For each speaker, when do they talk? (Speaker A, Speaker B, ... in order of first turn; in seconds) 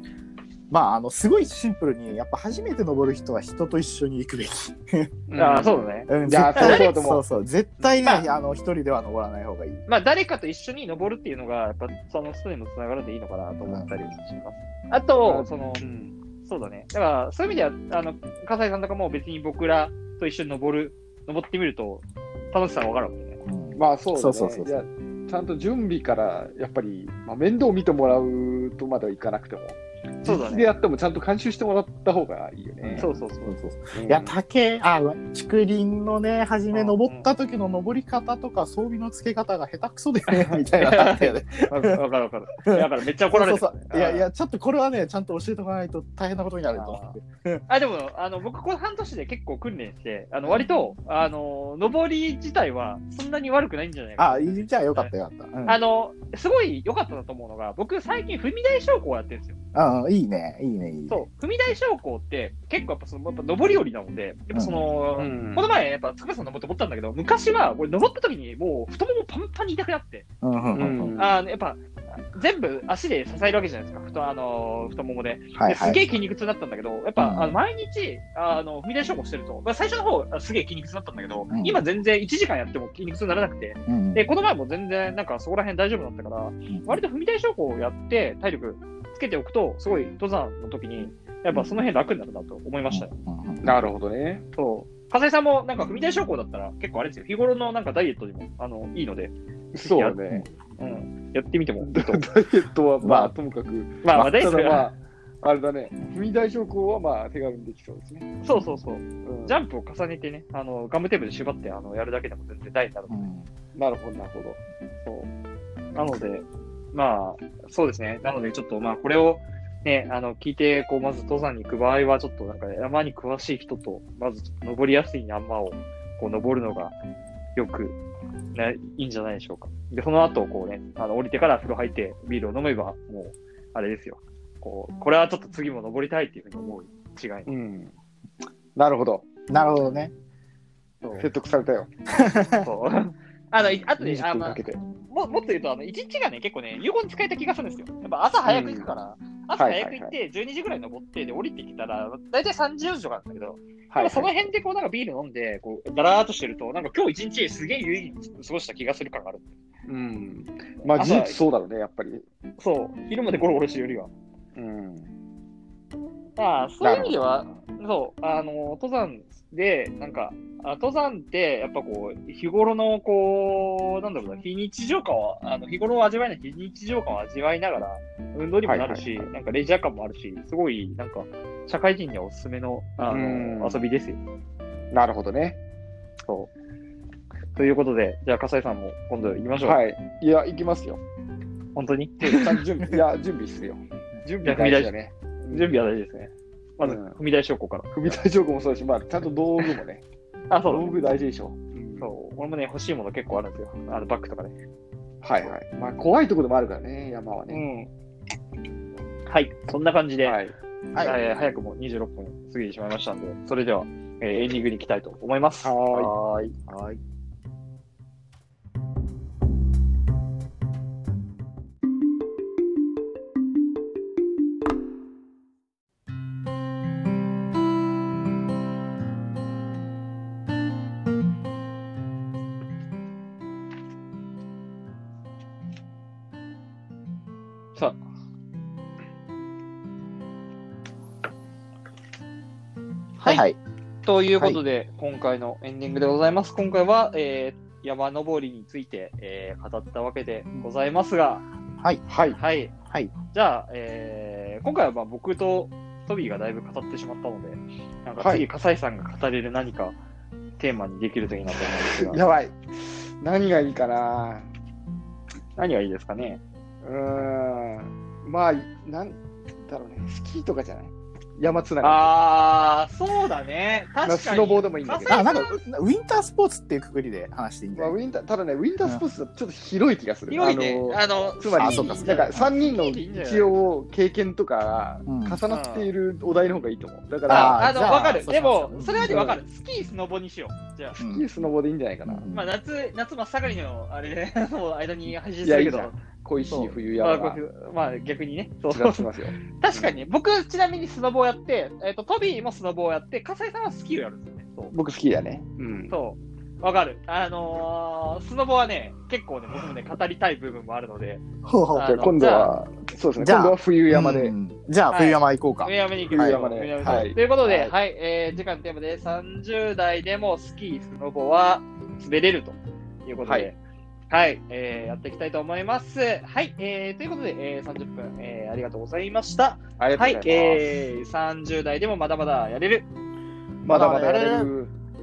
Speaker A: 0.7-5.1, 6.1-9.8, 13.6-14.2, 23.4-24.7, 32.8-42.0, 42.6-47.6, 50.4-50.7, 54.2-55.8, 59.7-61.2, 64.5-64.8, 70.4-71.1, 75.5-76.0, 77.2-77.6, 81.5-81.8, 83.9-84.2, 86.7-87.0, 91.5-91.8, 92.9-93.6, 103.0-103.3, 113.1-113.5, 139.5-140.1, 142.1-142.7, 210.9-211.2, 216.7-217.0, 243.2-243.6, 275.1-277.9, 281.6-282.5, 285.1-285.4, 287.3-289.2, 291.0-291.2, 292.1-292.5, 311.4-311.9, 313.2-317.1, 333.7-334.5
Speaker B: 5.3-7.2, 15.2-16.2, 23.8-33.2, 33.9-34.4, 65.2-65.6, 70.7-71.4, 93.6-94.4, 99.7-100.5, 101.8-108.3, 109.2-109.6, 113.7-114.6, 137.5-137.9, 138.7-139.3, 141.2-141.9, 144.0-144.8, 148.4-148.9, 149.5-150.1, 153.9-154.3, 159.8-162.2, 164.5-165.1, 166.8-167.2, 178.6-179.3, 183.1-183.8, 184.9-185.6, 189.6-191.0, 192.2-193.8, 194.4-195.7, 196.8-197.2, 197.9-200.0, 200.6-202.1, 205.2-207.6, 210.2-210.5, 215.6-216.1, 252.1-252.4, 258.2-258.4, 261.9-264.5, 266.8-272.1, 274.0-275.3, 277.7-288.1, 289.0-289.4, 291.0-292.3, 295.4-297.4, 298.7-299.9, 304.7-305.9, 311.8-314.3, 316.1-317.7, 323.2-323.5, 329.8-330.6, 333.6-334.7
Speaker C: 5.4-6.9, 9.9-15.8, 16.4-23.4, 30.2-30.7, 33.0-33.6, 36.7-37.3, 40.3-44.2, 46.7-55.1, 55.6-59.5, 61.1-70.2, 71.2-93.1, 94.5-100.2, 100.8-102.3, 104.0-104.9, 108.4-113.3, 115.0-115.3, 115.9-126.9, 127.5-128.0, 128.5-137.5, 141.0-141.3, 142.6-159.5, 160.9-161.4, 162.6-164.1, 166.4-184.2, 187.5-189.8, 191.7-192.6, 194.2-194.9, 195.5-197.9, 200.5-201.1, 202.0-204.6, 207.5-207.9, 209.3-210.4, 211.0-216.6, 243.2-243.4, 244.0-251.4, 252.3-252.7, 253.3-259.9, 260.6-262.2, 265.6-266.4, 271.8-275.6, 280.3-283.7, 285.5-285.9, 287.3-291.0, 292.3-304.7, 305.9-312.5, 314.9-323.6, 324.1-332.9